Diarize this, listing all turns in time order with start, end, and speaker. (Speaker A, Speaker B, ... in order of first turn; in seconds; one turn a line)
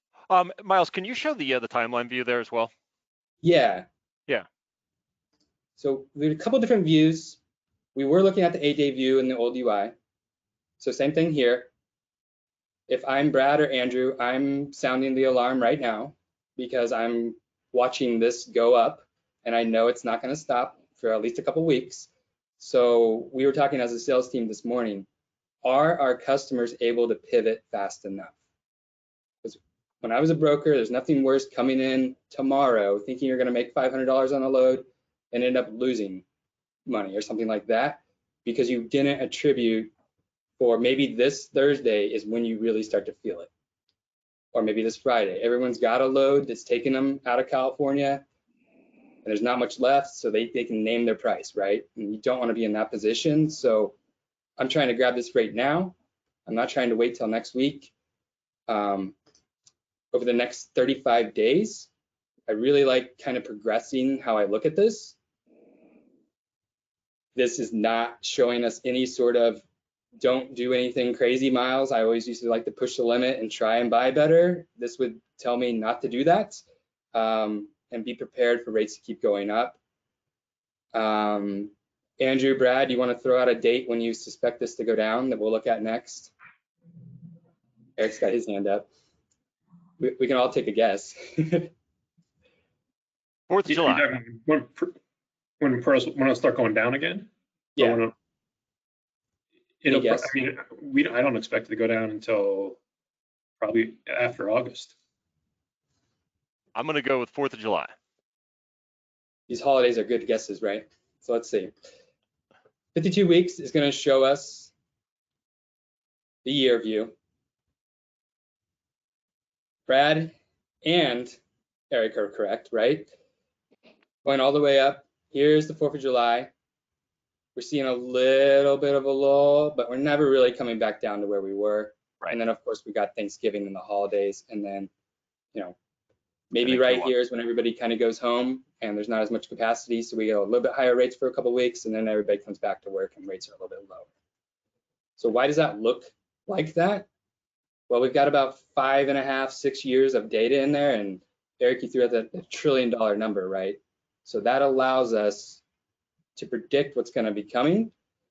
Speaker A: 0.3-2.7
Speaker B: 3.4-3.9
Speaker B: 5.8-7.4
Speaker B: 7.9-9.9
Speaker B: 10.8-11.7
Speaker B: 12.9-25.1
Speaker B: 25.6-28.3
Speaker B: 29.4-36.2
Speaker B: 36.9-39.9
Speaker B: 40.6-43.5
Speaker B: 44.5-48.2
Speaker B: 49.2-54.0
Speaker B: 54.6-55.9
Speaker B: 56.5-57.9
Speaker B: 58.7-59.1
Speaker B: 60.1-61.9
Speaker B: 62.5-65.1
Speaker B: 67.3-69.6
Speaker B: 70.2-76.6
Speaker B: 77.1-79.8
Speaker B: 80.9-86.3
Speaker B: 88.0-88.9
Speaker B: 90.0-91.7
Speaker A: 93.5-94.1
Speaker C: 93.7-94.9
Speaker C: 95.6-98.1
Speaker C: 99.8-102.8
Speaker B: 99.9-100.3
Speaker C: 103.6-104.9
Speaker A: 106.7-107.9
Speaker B: 109.5-111.7
Speaker B: 112.9-114.7
Speaker B: 116.4-117.1
Speaker B: 119.9-121.4
Speaker B: 121.9-123.1
Speaker B: 124.2-126.5
Speaker B: 127.5-134.9
Speaker B: 136.5-144.1
Speaker A: 136.6-137.1
Speaker B: 145.2-147.1
Speaker B: 147.9-155.6
Speaker B: 156.3-157.9